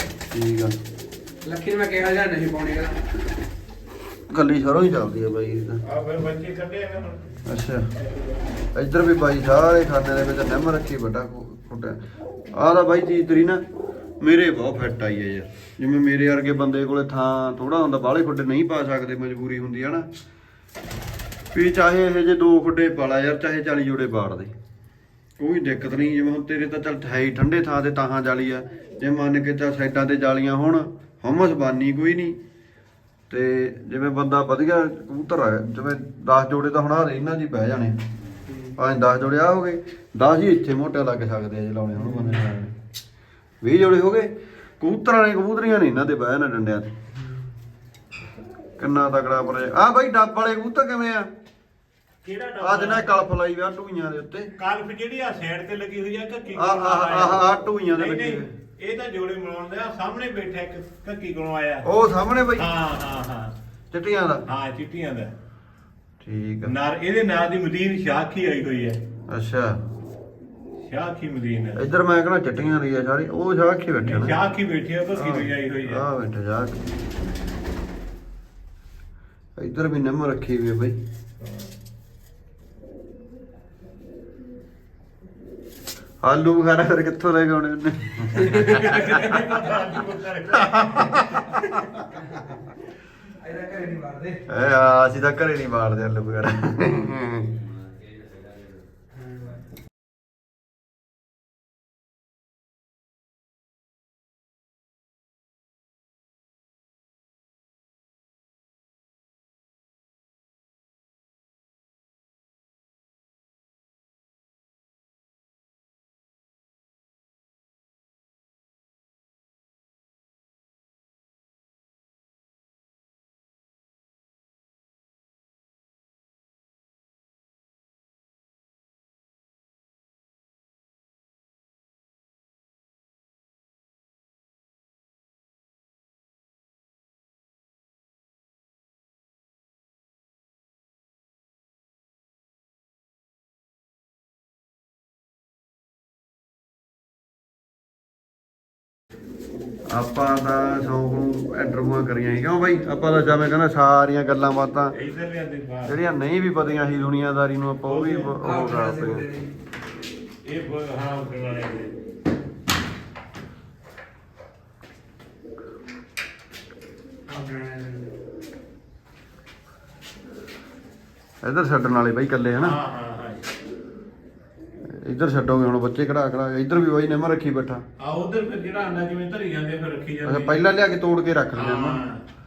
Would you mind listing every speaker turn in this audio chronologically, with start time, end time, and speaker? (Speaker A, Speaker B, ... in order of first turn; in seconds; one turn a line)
Speaker A: 0.3-0.7
Speaker B: 1.4-3.0
Speaker A: 4.3-5.8
Speaker C: 5.8-7.3
Speaker A: 7.4-7.9
Speaker C: 8.1-8.3
Speaker A: 8.7-12.0
Speaker A: 12.5-13.6
Speaker A: 14.2-20.1
Speaker A: 21.5-24.5
Speaker A: 25.4-32.4
Speaker A: 33.3-38.0
Speaker A: 38.7-42.7
Speaker A: 43.6-46.9
Speaker A: 48.8-51.3
Speaker C: 52.2-53.2
Speaker A: 52.6-54.5
Speaker C: 54.6-61.9
Speaker A: 56.5-58.5
Speaker A: 61.8-62.7
Speaker C: 62.6-63.5
Speaker A: 63.9-64.5
Speaker C: 64.5-65.3
Speaker A: 66.2-66.7
Speaker C: 66.6-69.0
Speaker A: 69.3-69.8
Speaker C: 70.8-71.8
Speaker A: 71.7-74.4
Speaker C: 74.0-76.0
Speaker A: 75.1-76.9
Speaker A: 79.6-81.0
Speaker A: 86.2-89.1
Speaker C: 88.4-91.6
Speaker A: 90.5-91.7
Speaker B: 93.3-94.4
Speaker A: 94.5-97.5
Speaker A: 149.9-154.9
Speaker C: 154.9-156.0
Speaker A: 155.8-159.3
Speaker C: 157.8-158.3
Speaker B: 158.4-159.5
Speaker C: 160.4-161.9
Speaker B: 167.3-168.1
Speaker A: 171.4-172.8
Speaker C: 172.6-173.4
Speaker A: 174.9-177.8
Speaker C: 178.0-180.6
Speaker A: 180.2-182.0
Speaker C: 181.5-182.2